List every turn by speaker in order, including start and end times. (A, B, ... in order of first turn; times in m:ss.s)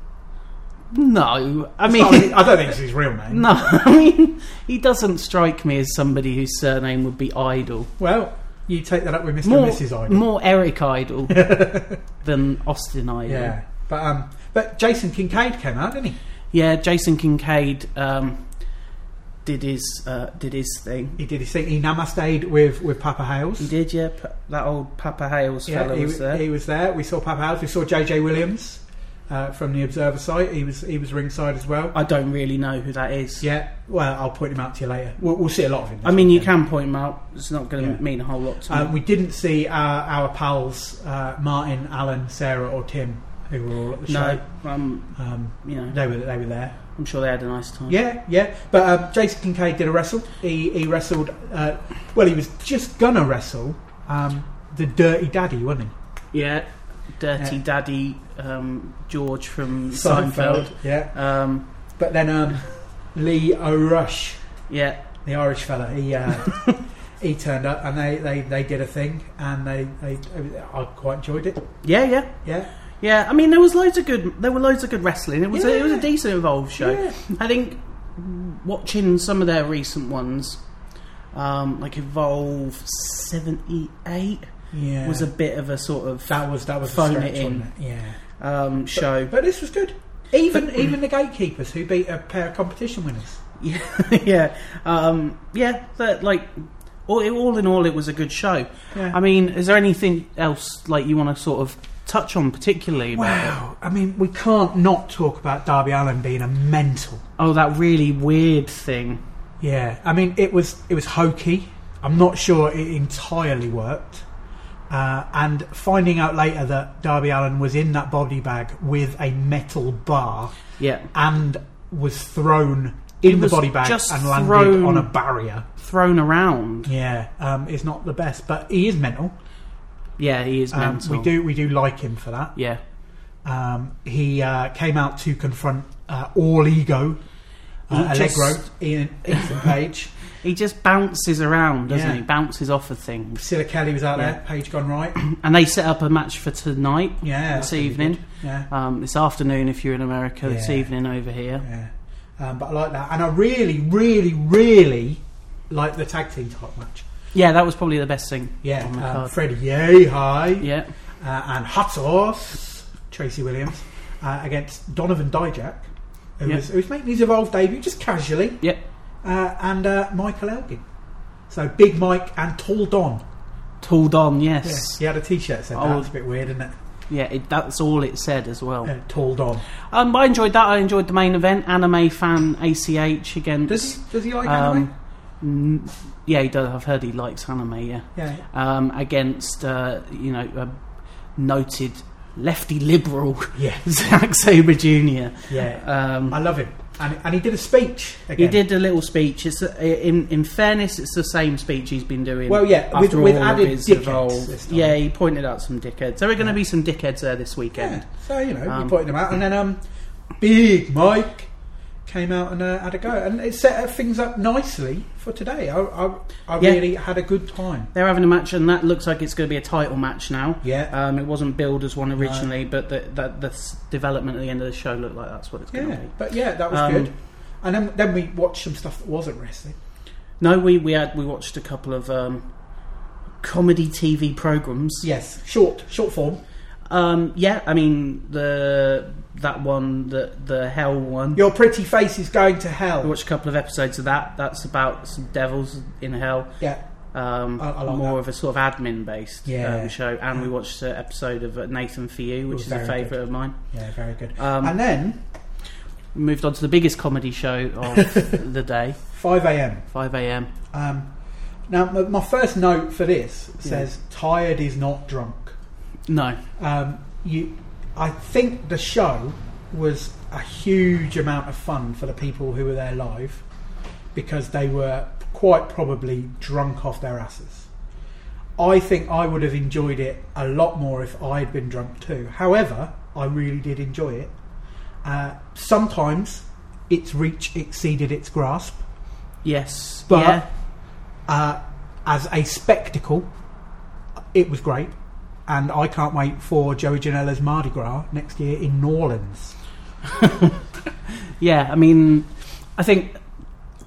0:00.9-0:07.9 A
0:01.8-0:03.4 B
0:08.0-0:10.3 B
0:09.4-0:13.6 A
0:11.3-0:12.0 B
0:13.3-0:16.2 B
0:16.5-0:18.5 A
0:19.4-0:21.2 A
0:21.2-0:23.7 B
0:23.6-0:26.4 A
0:25.7-0:31.9 B
0:31.9-0:33.5 A
0:33.4-0:36.5 B
0:36.0-0:38.9 A
0:37.8-0:38.0 B
0:38.6-0:44.4 B
0:44.1-0:46.0 A
0:45.2-0:46.8 B
0:47.0-0:48.0 A
0:47.9-0:55.9 B
0:56.3-1:01.7 A
0:59.9-1:01.1 B
1:02.0-1:04.4 B
1:04.7-1:05.0 A
1:05.2-1:06.7 B
1:06.5-1:06.8 A
1:07.2-1:11.7 B
1:11.8-1:12.4 A
1:12.4-1:12.7 B
1:13.0-1:20.6 A
1:15.5-1:16.1 B
1:16.8-1:17.2 B
1:21.3-1:27.7 A
1:24.7-1:25.3 B
1:26.3-1:28.2 B
1:28.4-1:29.3 A
1:28.9-1:33.4 B
1:33.6-1:43.6 A
1:43.1-1:47.2 B
1:47.4-1:49.2 A
1:49.6-1:54.2 B
1:54.9-2:00.6 B
2:00.8-2:01.1 A
2:01.1-2:05.7 B
2:03.2-2:05.1 A
2:05.8-2:06.9 A
2:06.8-2:09.4 B
2:10.2-2:11.3 A
2:10.7-2:12.5 B
2:12.6-2:12.8 A
2:13.4-2:17.2 B
2:17.9-2:20.1 B
2:17.9-2:18.6 A
2:19.2-2:19.6 A
2:20.4-2:23.4 A
2:21.9-2:22.2 B
2:23.4-2:25.2 B
2:24.1-2:24.4 A
2:25.2-2:31.6 A
2:27.2-2:28.7 B
2:30.4-2:30.9 B
2:31.6-2:37.0 B
2:37.3-2:39.3 A
2:38.6-2:40.7 B
2:40.6-2:40.9 A
2:41.2-2:45.9 B
2:46.4-2:48.6 B
2:49.2-2:50.8 B
2:51.5-2:53.2 B
2:53.8-2:55.0 A
2:54.6-2:56.7 B
2:55.7-2:56.1 A
2:57.1-2:58.9 A
2:58.8-2:59.6 B
2:59.8-3:10.8 A
3:03.7-3:04.9 B
3:08.1-3:08.4 B
3:11.4-3:16.4 A
3:13.6-3:13.8 B
3:15.5-3:18.6 B
3:18.4-3:28.0 A
3:22.5-3:25.0 B
3:27.7-3:29.8 B
3:28.6-3:29.0 A
3:30.4-3:31.5 B
3:32.0-3:37.9 B
3:36.6-3:36.8 A
3:37.9-3:47.1 A
3:40.6-3:40.9 B
3:42.2-3:42.5 B
3:45.7-3:49.8 B
3:50.4-3:52.5 A
3:53.4-3:55.1 A
3:55.0-3:56.4 B
3:56.9-4:01.4 A
4:01.3-4:03.1 B
4:03.0-4:06.6 A
4:07.1-4:13.6 A
4:07.6-4:08.2 B
4:09.4-4:10.5 B
4:12.5-4:15.2 B
4:14.4-4:14.7 A
4:16.1-4:19.0 A
4:19.1-4:19.8 B
4:19.9-4:20.5 A
4:20.7-4:21.1 B
4:21.7-4:25.6 B
4:26.1-4:26.4 A
4:26.6-4:33.4 B
4:34.1-4:37.7 B
4:38.6-4:44.3 B
4:45.0-4:48.8 B
4:49.4-4:50.4 A
4:50.1-4:50.4 B
4:51.3-4:53.3 B
4:54.3-4:54.9 B
4:55.5-4:59.6 B
5:00.0-5:03.2 A